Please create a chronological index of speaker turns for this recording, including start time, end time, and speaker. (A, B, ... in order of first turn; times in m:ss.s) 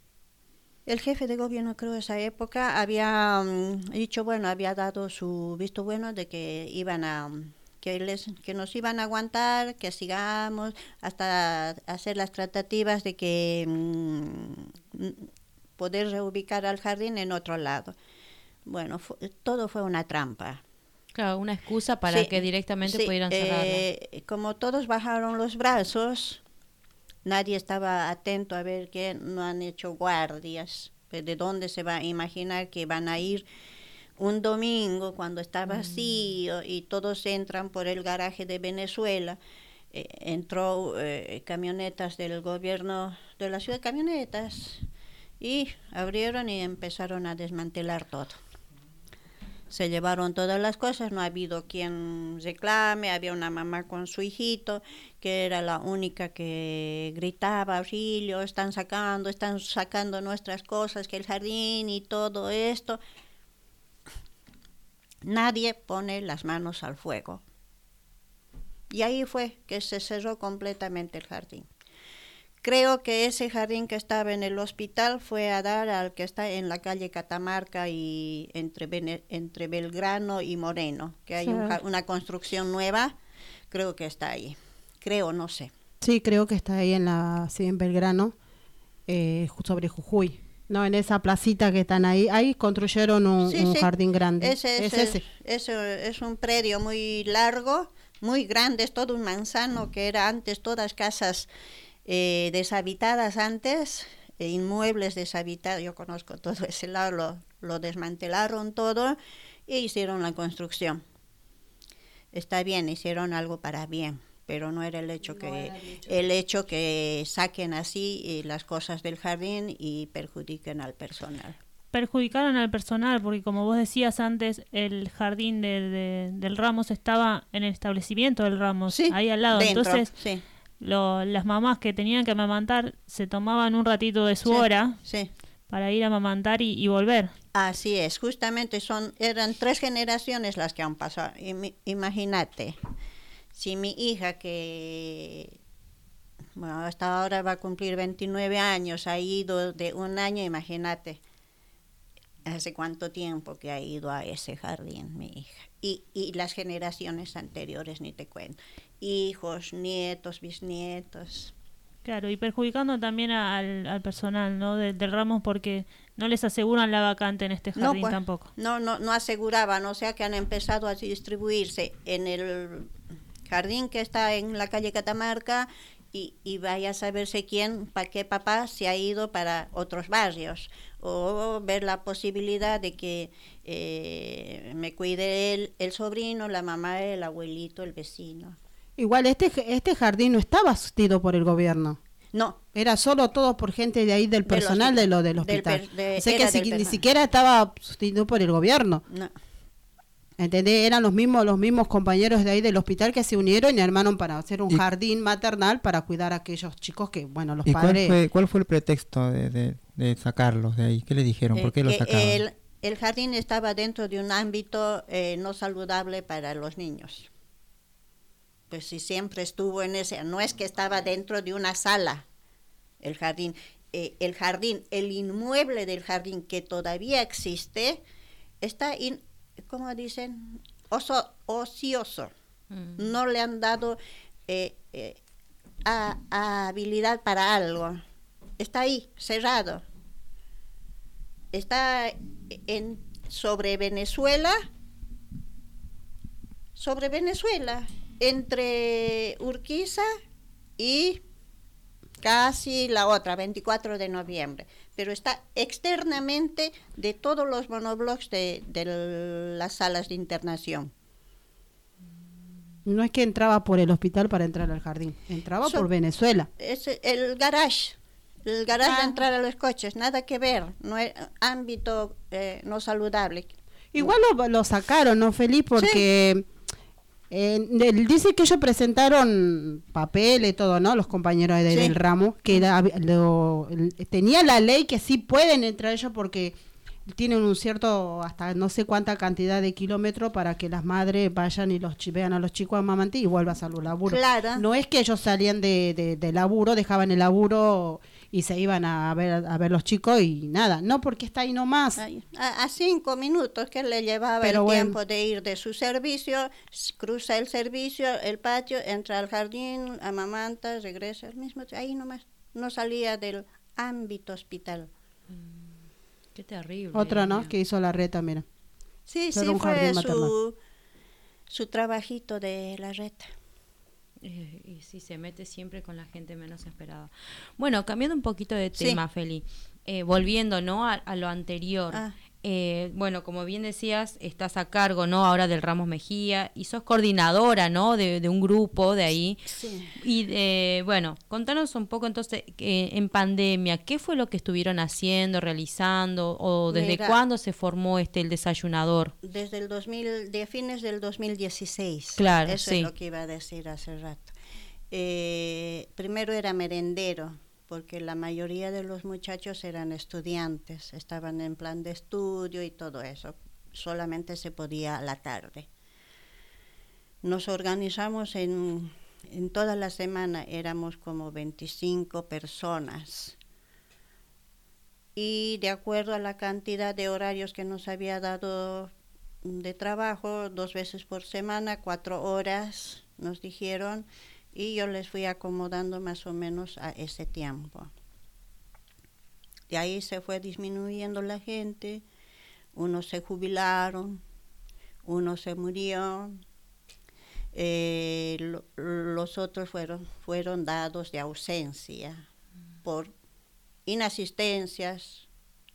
0:00.9-0:15.3 A
0:15.8-0:17.9 A
0:18.6-0:20.6 A
0:21.2-0:23.8 B
0:22.1-0:26.4 A
0:27.2-0:33.5 A
0:34.2-0:39.4 A
0:39.9-0:44.9 A
0:45.4-0:48.4 A
0:49.7-1:03.0 A
1:05.2-1:07.4 A
1:08.9-1:11.7 A
1:12.6-1:23.2 A
1:21.4-1:21.8 C
1:23.7-1:25.7 A
1:26.0-1:28.3 C
1:29.1-1:35.2 C
1:33.4-1:41.5 A
1:42.1-1:51.0 A
1:52.3-2:01.6 A
1:55.3-1:56.1 C
2:01.9-2:10.1 D
2:08.9-2:10.4 A
2:10.8-2:15.0 D
2:14.5-2:15.3 A
2:15.7-2:17.3 D
2:17.5-2:22.8 A
2:23.5-2:25.6 A
2:26.6-2:31.2 A
2:32.5-2:41.5 A
2:42.0-2:48.5 D
2:47.8-2:52.9 A
2:53.5-3:08.6 A
3:09.0-3:12.0 C
3:12.3-3:12.6 A
3:12.7-3:19.0 C
3:14.5-3:17.0 A
3:19.1-3:19.3 A
3:20.4-3:28.2 C
3:27.7-3:32.4 E
3:31.6-3:37.3 A
3:38.7-3:42.3 A
3:43.0-3:48.0 A
3:48.6-3:52.3 A
3:52.7-3:53.0 B
3:53.0-3:55.2 A
3:55.8-3:58.0 A
3:58.6-3:59.8 A
4:01.5-4:04.6 A
4:06.8-4:10.1 A
4:10.8-4:11.2 A
4:12.2-4:20.9 A
4:22.8-4:26.5 C
4:26.6-4:34.1 A
4:28.8-4:29.2 C
4:33.9-4:36.5 C
4:35.8-4:36.0 A
4:37.3-4:46.6 C
4:41.7-4:42.0 A
4:47.1-5:02.0 C
4:54.1-4:54.6 A
5:02.0-5:14.9 A
5:04.4-5:05.0 C
5:15.3-5:17.5 B
5:16.9-5:18.4 C
5:19.1-5:20.6 A
5:19.3-5:20.3 C
5:21.5-5:23.3 A
5:24.2-5:49.1 B
5:39.5-5:39.9 A
5:46.7-5:47.2 A
5:49.2-5:54.3 A
5:52.2-5:52.9 B
5:54.9-6:05.7 A
6:07.2-6:13.4 A
6:15.2-6:18.9 A
6:19.4-6:27.9 A
6:29.7-6:32.0 A
6:32.8-6:34.2 A
6:35.0-6:36.4 A
6:37.5-6:42.3 A
6:42.8-6:43.1 A
6:43.9-6:45.3 A